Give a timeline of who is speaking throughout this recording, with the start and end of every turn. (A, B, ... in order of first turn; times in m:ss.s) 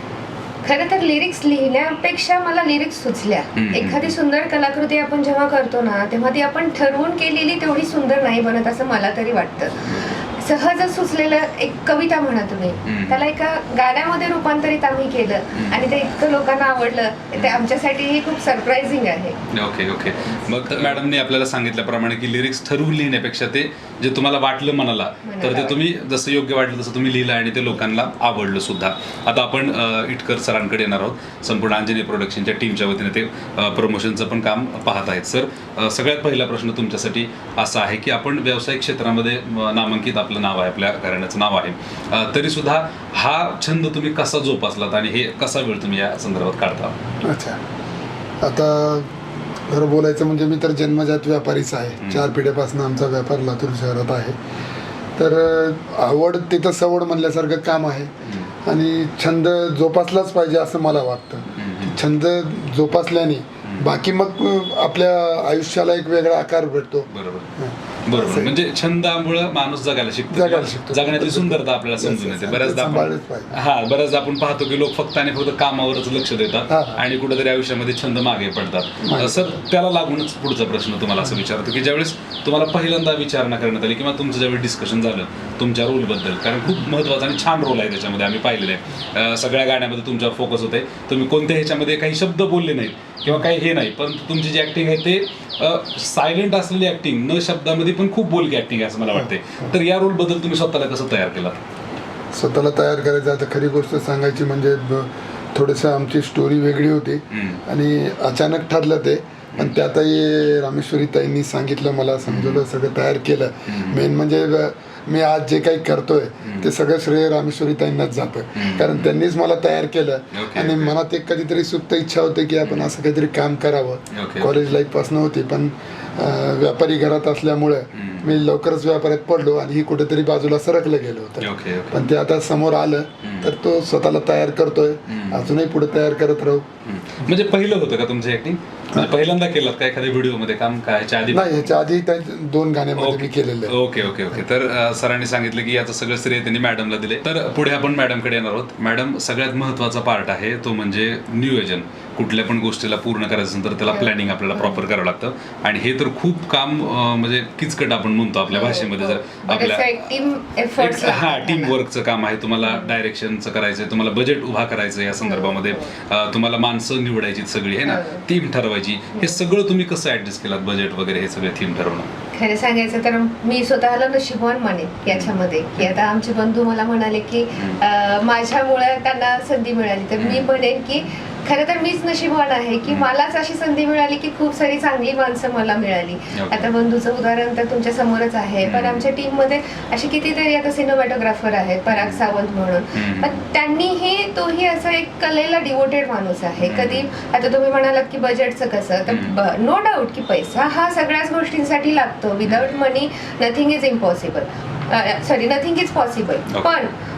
0:00.6-0:19.4 A
0:03.6-0:04.2 B
0:09.9-0:10.2 B
0:12.8-0:13.2 B
0:17.3-0:17.6 B
0:19.5-0:47.0 B
0:25.2-0:25.8 A
0:47.2-0:47.6 C
0:48.4-0:49.1 C
0:49.7-0:54.4 C
0:52.0-0:52.3 B
0:55.2-0:58.1 C
0:58.2-0:58.5 B
0:58.6-1:08.6 C
1:01.6-1:02.0 B
1:03.6-1:03.9 B
1:07.1-1:07.5 B
1:08.0-1:41.6 B
1:10.3-1:13.5 C
1:16.7-1:17.0 C
1:19.0-1:19.6 C
1:39.1-1:39.7 C
1:42.3-2:16.6 C
1:47.3-1:47.6 B
1:52.3-1:52.6 B
1:53.7-1:54.0 B
1:56.4-1:56.7 B
1:58.6-1:59.1 B
2:00.3-2:00.9 B
2:02.6-2:02.9 B
2:04.1-2:04.6 B
2:07.9-2:08.3 B
2:11.4-2:12.0 B
2:13.2-2:13.5 B
2:15.1-2:15.5 B
2:16.8-2:21.7 B
2:21.3-2:23.8 C
2:23.0-2:40.1 B
2:33.9-2:34.8 A
2:38.5-2:41.8 A
2:40.8-2:52.1 B
2:42.6-2:42.9 A
2:45.2-2:45.9 A
2:47.8-2:48.2 A
2:52.4-3:26.9 A
2:55.1-2:56.0 B
2:57.6-2:57.8 B
3:00.2-3:00.5 B
3:06.3-3:06.7 B
3:08.6-3:09.0 B
3:11.9-3:12.2 B
3:12.9-3:13.4 B
3:16.6-3:17.1 B
3:19.1-3:19.4 B